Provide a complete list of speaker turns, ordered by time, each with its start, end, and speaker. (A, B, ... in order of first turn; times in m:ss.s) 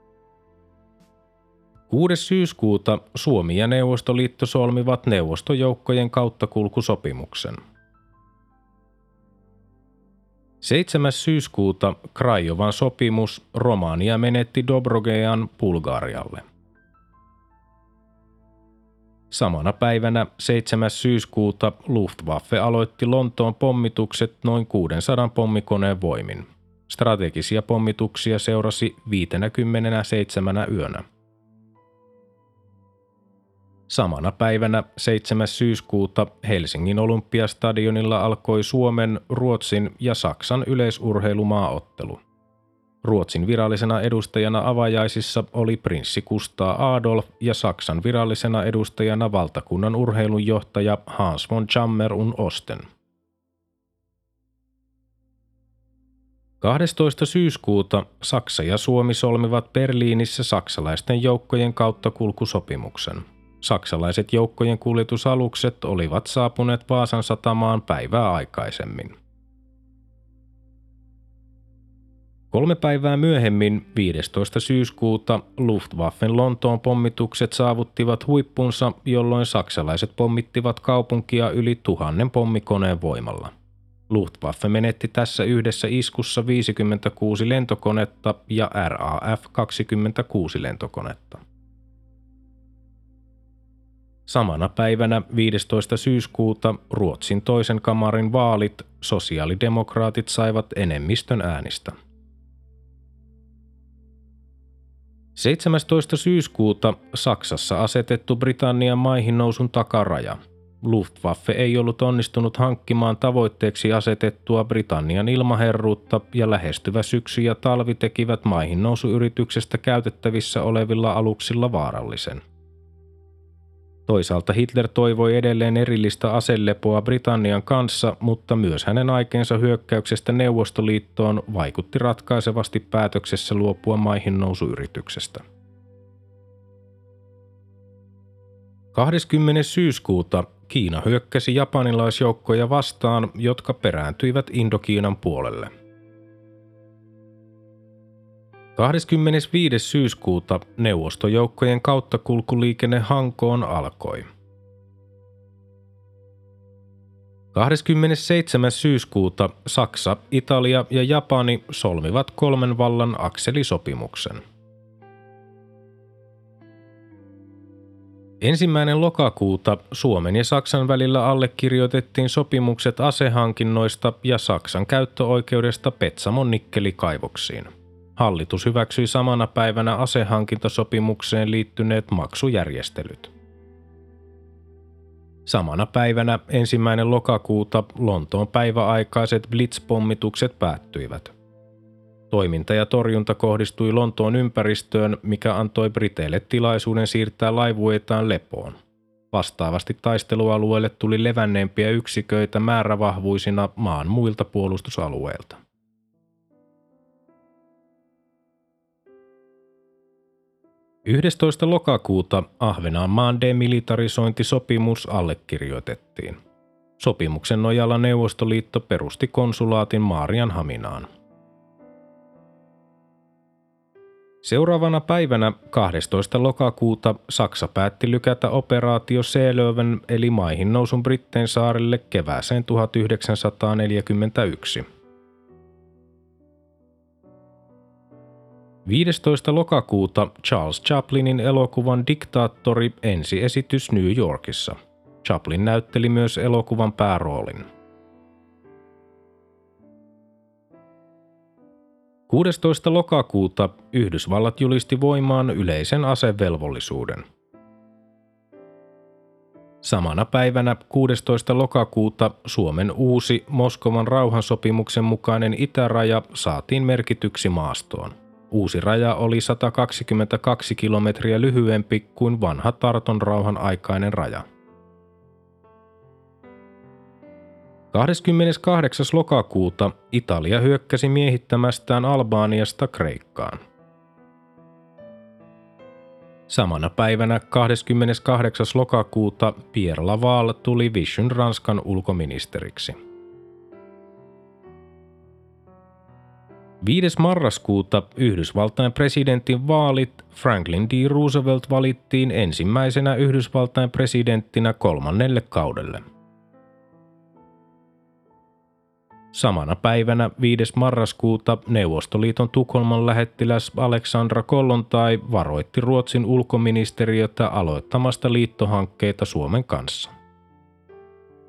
0:01.9-0:07.6 A
0:10.6-0:16.4 A
0:19.3-0:31.0 A
0:33.9-0:42.2 A
0:43.0-0:52.8 A
0:56.6-1:09.1 A
1:12.5-1:23.5 A
1:24.1-1:31.4 A
1:34.3-1:42.0 A
1:45.4-2:02.4 A
2:04.1-2:15.4 A
2:18.9-2:25.7 A
2:28.8-2:34.3 A
2:37.5-2:44.4 A
2:48.4-3:03.3 A
3:05.4-3:11.3 A
3:12.3-3:18.8 A
3:19.3-3:25.6 A
3:31.0-3:36.4 A
3:37.0-3:41.1 A
3:44.4-3:54.8 A
3:58.8-4:07.7 A
4:12.3-4:17.2 A
4:19.8-4:34.4 A
4:37.9-4:43.6 A
4:46.5-4:53.0 A
4:56.8-5:06.0 A
5:09.3-5:20.1 A